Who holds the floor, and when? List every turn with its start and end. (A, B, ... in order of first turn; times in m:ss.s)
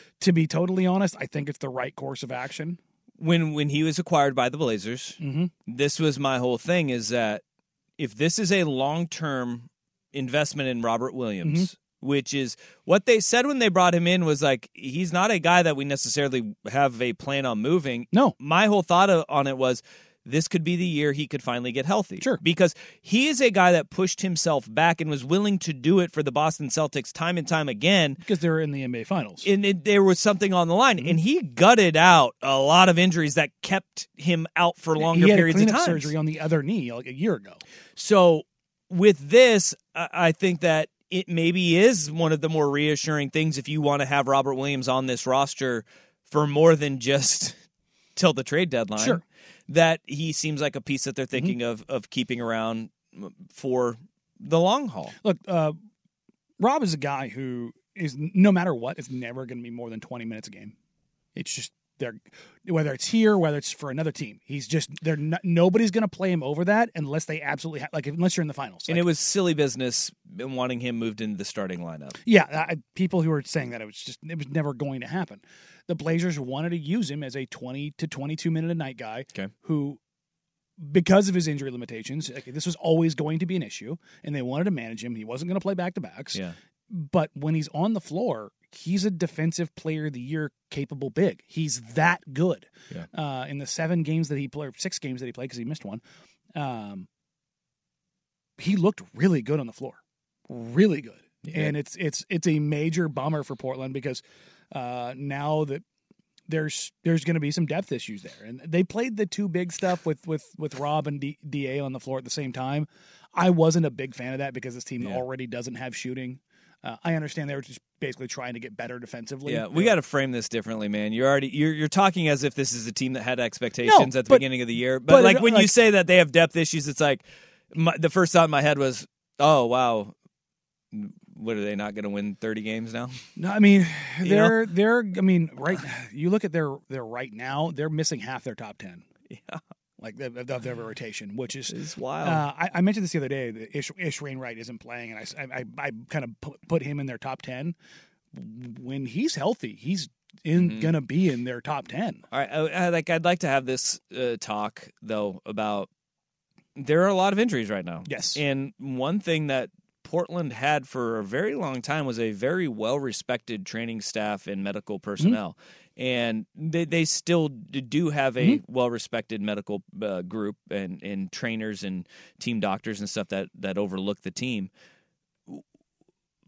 0:00.2-0:02.8 A
0:03.2-0:07.4 B
0:05.2-0:05.5 A
0:08.0-0:28.2 B
0:28.2-0:29.5 A
0:29.4-0:36.1 B
0:35.0-0:37.6 A
0:38.0-0:47.6 B
0:48.2-0:55.2 B
0:49.0-0:49.2 A
0:55.2-0:55.8 A
0:56.6-1:00.7 A
1:01.3-1:09.0 A
1:08.9-1:12.2 B
1:12.2-1:20.0 A
1:20.8-1:26.4 A
1:26.9-1:36.0 A
1:36.5-1:37.1 A
1:38.6-1:45.8 A
1:41.4-1:41.8 B
1:46.5-1:59.9 A
1:59.4-2:10.1 B
2:03.8-2:04.5 A
2:05.0-2:05.7 A
2:10.9-2:13.3 B
2:13.4-2:19.0 A
2:14.2-2:14.7 B
2:19.3-2:19.6 B
2:20.0-2:27.7 A
2:21.7-2:22.4 B
2:28.3-2:32.2 A
2:30.6-2:30.9 B
2:32.3-2:35.9 B
2:36.8-2:54.7 B
2:38.1-2:38.4 A